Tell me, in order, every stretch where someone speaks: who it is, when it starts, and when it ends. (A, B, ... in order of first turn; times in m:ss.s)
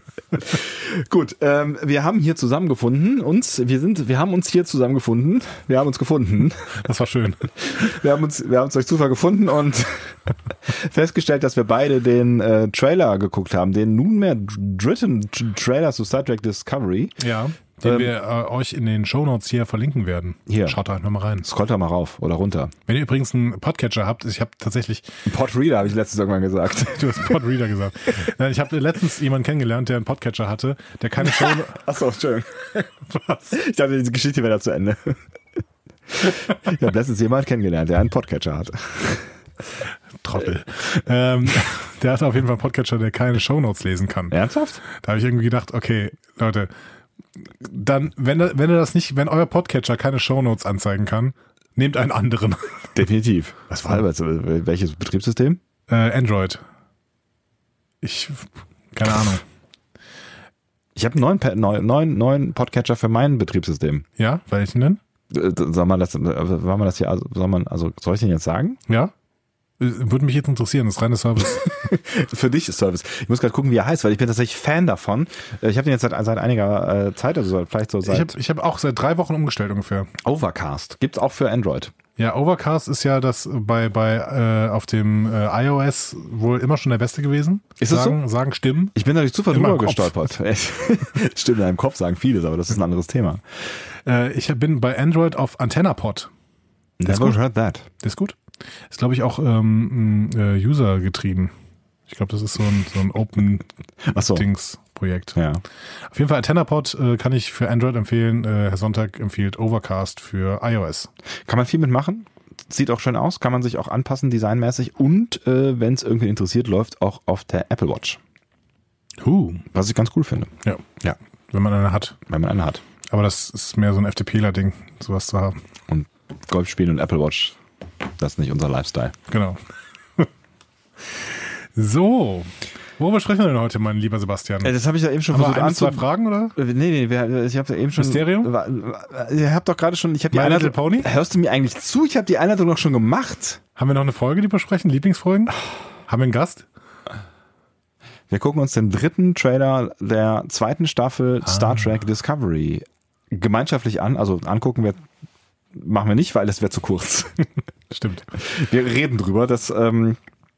0:00.3-0:06.8 A
0:06.7-0:07.5 B
0:07.5-0:17.2 A
0:17.2-0:21.4 B
0:17.8-0:18.1 A
0:20.5-0:20.8 A
0:21.4-0:22.7 A
0:22.9-0:25.2 B
0:25.2-0:27.4 A
0:26.9-0:31.8 B
0:31.2-0:32.9 A
0:33.1-0:33.5 B
0:33.5-0:35.2 A
0:36.1-0:39.4 A
0:40.2-0:46.7 B
0:44.3-0:44.8 A
0:47.5-0:52.9 B
0:52.9-0:55.6 A
0:53.7-0:54.0 B
0:55.9-0:56.6 B
0:58.0-0:59.4 B
1:01.0-1:04.0 A
1:04.2-1:05.0 B
1:05.3-1:08.8 A
1:08.9-1:09.1 B
1:09.8-1:11.9 B
1:11.6-1:18.3 A
1:18.0-1:20.1 B
1:20.2-1:21.9 A
1:22.2-1:28.9 B
1:27.8-1:28.2 A
1:28.9-1:33.6 A
1:29.5-1:30.3 B
1:34.0-1:36.3 B
1:37.0-1:37.9 A
1:37.1-1:37.4 B
1:38.0-1:38.4 B
1:38.9-1:41.5 B
1:42.1-1:43.6 B
1:44.0-1:44.4 A
1:44.3-1:45.4 B
1:45.4-1:45.6 A
1:46.0-1:51.1 B
1:51.4-1:58.2 A
1:59.2-1:59.6 B
1:59.7-2:01.2 A
2:00.6-2:02.2 B
2:02.3-2:02.8 A
2:03.1-2:05.6 B
2:05.9-2:07.6 A
2:08.2-2:09.1 A
2:09.3-2:09.6 B
2:11.0-2:14.7 B
2:14.6-2:23.6 A
2:15.3-2:16.5 B
2:18.0-2:18.5 B
2:20.3-2:21.1 B
2:23.8-2:26.7 B
2:28.3-2:35.0 A
2:31.4-2:31.9 B
2:35.7-2:37.4 A
2:37.9-2:38.3 B
2:38.3-2:40.2 A